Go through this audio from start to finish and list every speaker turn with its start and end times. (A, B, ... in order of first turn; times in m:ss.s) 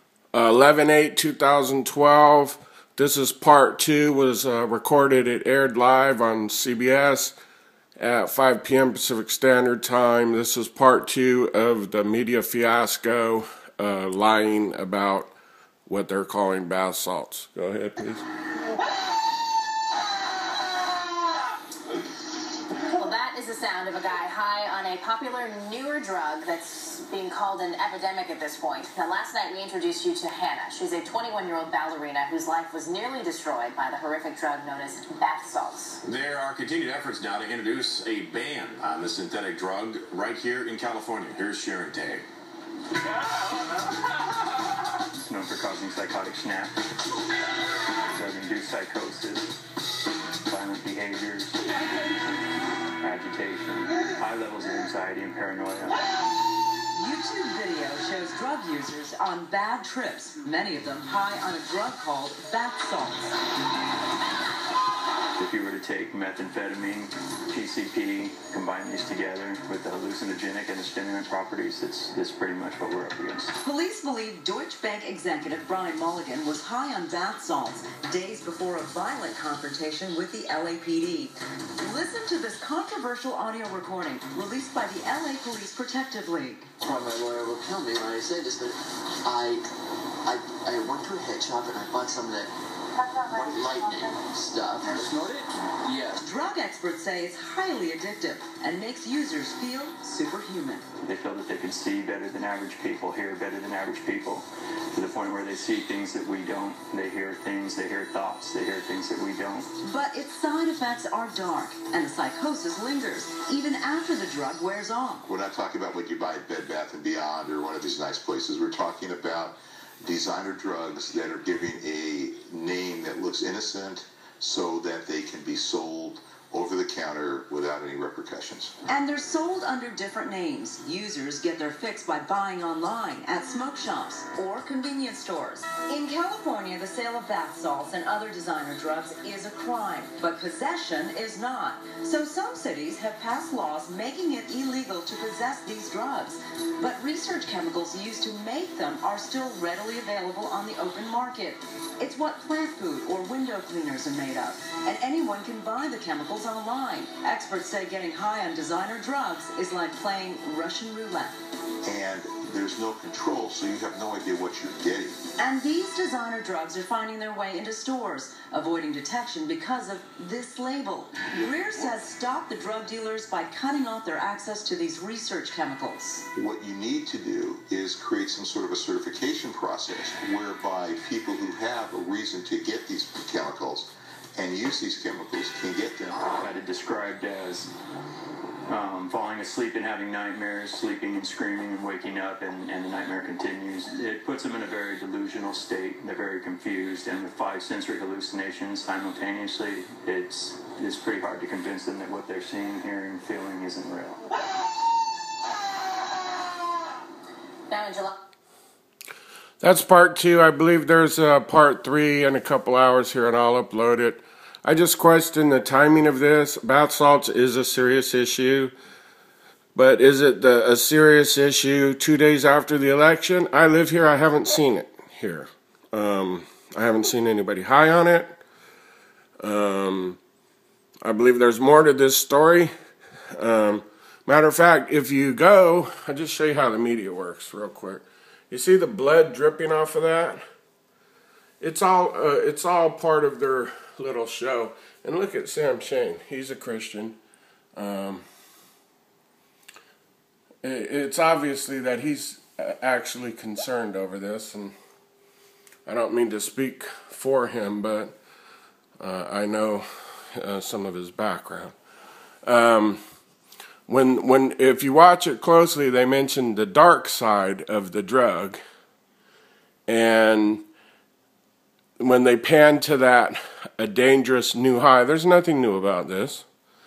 0:00.3-0:07.3 A
0:08.0-0:15.3 A
0:15.9-0:18.2 A
0:22.9-0:36.0 B
0:36.0-0:42.2 C
0:45.3-0:46.8 D
0:48.1-0:49.5 D
0:50.4-0:51.6 D
0:53.0-0:56.0 D
0:56.9-1:03.3 E
1:05.4-1:13.5 D
1:13.6-1:26.7 E
1:26.8-1:29.6 F
1:30.2-1:32.5 F
1:33.2-1:36.2 F
1:36.2-1:40.8 E
1:41.0-1:49.7 D
1:49.8-1:55.3 E
1:55.3-2:08.7 G
2:08.9-2:41.4 E
2:41.8-2:45.2 G
2:45.4-2:56.3 E
2:56.4-3:06.4 G
3:06.3-3:07.7 D
3:08.7-3:24.2 D
3:27.7-3:28.1 B
3:29.6-3:38.7 A
3:39.8-3:48.4 A
3:49.4-3:50.2 A
3:51.0-3:52.7 A
3:53.3-4:00.4 A
4:01.6-4:07.2 A
4:07.8-4:08.2 A
4:10.6-4:14.8 A
4:15.9-4:18.1 A
4:19.0-4:21.7 A
4:22.4-4:23.0 A
4:23.9-4:28.6 A
4:29.9-4:30.6 A
4:32.0-4:36.4 A